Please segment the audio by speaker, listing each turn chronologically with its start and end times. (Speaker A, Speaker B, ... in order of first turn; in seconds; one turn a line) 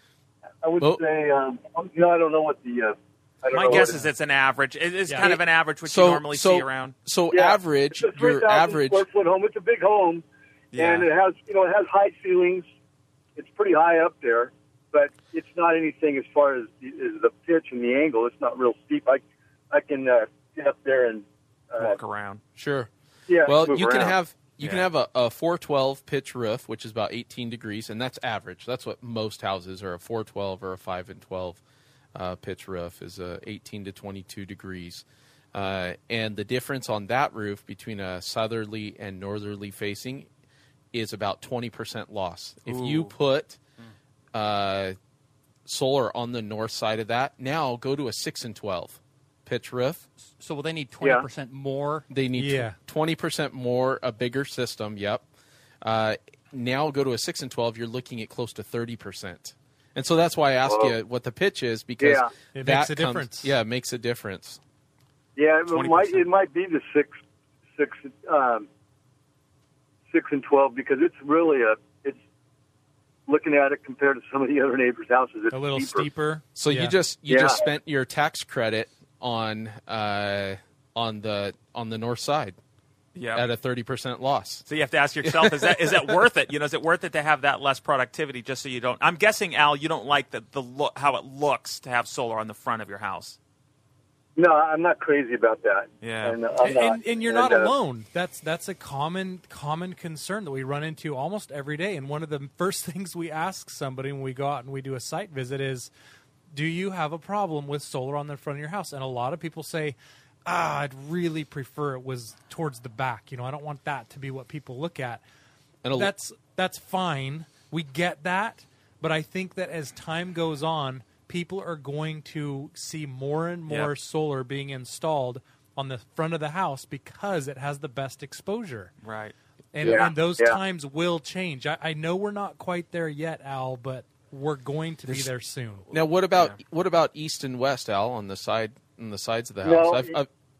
Speaker A: 0.6-4.0
Speaker B: 3.5-6.9
Speaker C: 3.7-4.0
Speaker D: 5.0-5.3
Speaker C: 5.2-9.0
Speaker A: 7.3-10.2
Speaker B: 10.7-11.1
Speaker A: 10.7-12.6
Speaker A: 13.3-22.0
Speaker B: 21.8-22.4
Speaker C: 22.6-22.9
Speaker A: 23.3-24.2
Speaker C: 23.4-31.6
Speaker B: 24.6-24.9
Speaker C: 32.1-40.3
Speaker C: 40.9-43.6
Speaker B: 42.6-43.1
Speaker C: 44.3-45.0
Speaker C: 45.6-50.0
Speaker D: 50.2-52.1
Speaker A: 51.0-51.2
Speaker C: 52.1-55.2
Speaker E: 52.4-52.7
Speaker C: 55.8-64.6
Speaker A: 60.7-61.0
Speaker A: 62.0-62.3
Speaker E: 62.5-63.5
Speaker A: 65.3-67.2
Speaker B: 65.7-66.2
Speaker A: 67.8-68.7
Speaker A: 70.1-72.2
Speaker A: 73.3-76.1
Speaker E: 75.5-76.9
Speaker C: 76.5-82.6
Speaker A: 77.3-77.6
Speaker B: 83.1-83.4
Speaker C: 83.3-84.7
Speaker B: 84.7-93.4
Speaker C: 85.2-86.2
Speaker A: 94.3-97.7
Speaker B: 96.0-96.4
Speaker E: 96.6-105.9
Speaker E: 106.5-115.2
Speaker C: 115.8-116.1
Speaker E: 115.9-128.9
Speaker B: 129.0-129.3
Speaker E: 129.8-135.8
Speaker C: 129.8-130.1
Speaker A: 129.8-130.6
Speaker C: 135.9-140.3
Speaker A: 139.6-140.2